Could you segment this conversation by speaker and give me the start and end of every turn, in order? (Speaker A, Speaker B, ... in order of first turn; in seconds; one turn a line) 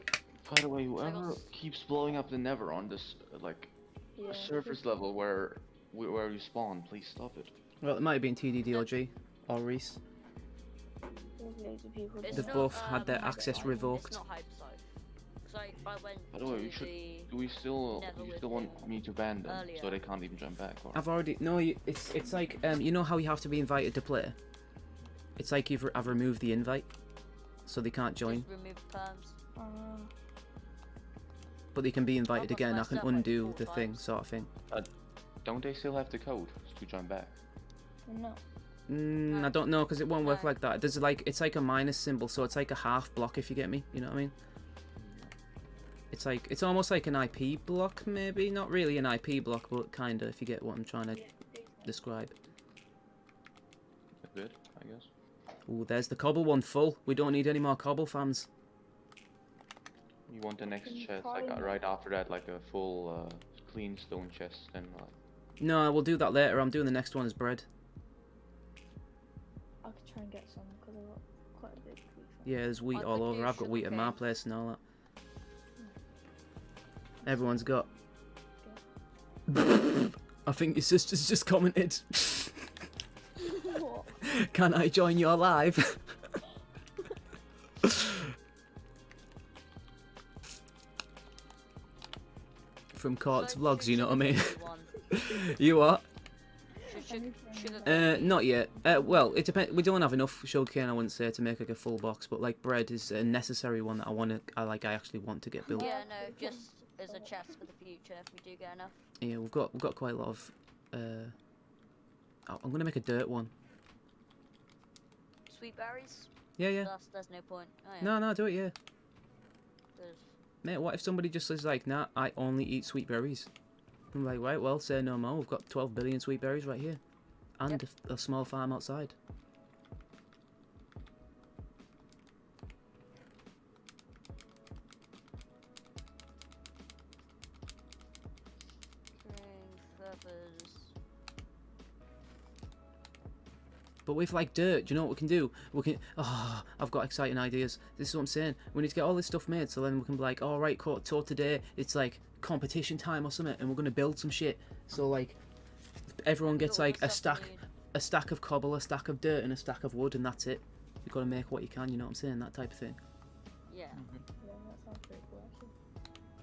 Speaker A: 0.4-7.5
Speaker B: 1.0-1.5
Speaker C: 4.2-4.8
Speaker D: 7.8-10.0
Speaker B: 8.7-9.0
Speaker C: 11.4-13.9
Speaker B: 12.2-14.8
Speaker D: 12.3-14.2
Speaker B: 15.4-17.3
Speaker A: 16.3-21.0
Speaker B: 17.9-18.9
Speaker B: 19.4-20.0
Speaker D: 20.9-24.4
Speaker D: 25.4-26.9
Speaker D: 27.6-28.5
Speaker B: 28.2-29.4
Speaker C: 29.6-30.1
Speaker D: 31.7-34.5
Speaker B: 32.3-34.1
Speaker A: 35.4-37.4
Speaker C: 38.0-38.4
Speaker D: 38.9-44.3
Speaker B: 39.3-39.6
Speaker B: 40.2-40.5
Speaker A: 45.0-45.3
Speaker D: 46.1-51.2
Speaker C: 51.1-51.9
Speaker D: 51.9-52.3
Speaker A: 54.2-55.1
Speaker D: 55.7-58.5
Speaker A: 60.3-65.2
Speaker C: 60.8-61.9
Speaker D: 65.6-67.7
Speaker C: 69.8-72.6
Speaker D: 72.4-74.8
Speaker B: 72.9-74.2
Speaker D: 77.2-77.9
Speaker D: 79.5-82.7
Speaker C: 83.4-84.2
Speaker D: 84.2-86.0
Speaker D: 87.8-88.2
Speaker D: 92.9-94.6
Speaker B: 93.3-95.0
Speaker D: 95.1-96.0
Speaker C: 96.8-99.3
Speaker B: 96.9-98.4
Speaker D: 97.8-105.9
Speaker C: 105.7-107.3
Speaker B: 105.7-109.0
Speaker D: 109.2-111.3
Speaker D: 112.5-113.5
Speaker B: 115.5-118.2
Speaker D: 116.6-116.9
Speaker D: 118.0-118.7
Speaker B: 120.0-120.3
Speaker D: 120.6-123.5
Speaker D: 124.1-127.0
Speaker D: 127.6-129.1
Speaker B: 139.2-140.9
Speaker D: 144.1-155.4
Speaker D: 156.2-163.0
Speaker B: 156.5-157.6
Speaker B: 163.7-164.0
Speaker A: 163.9-164.2
Speaker C: 164.4-165.7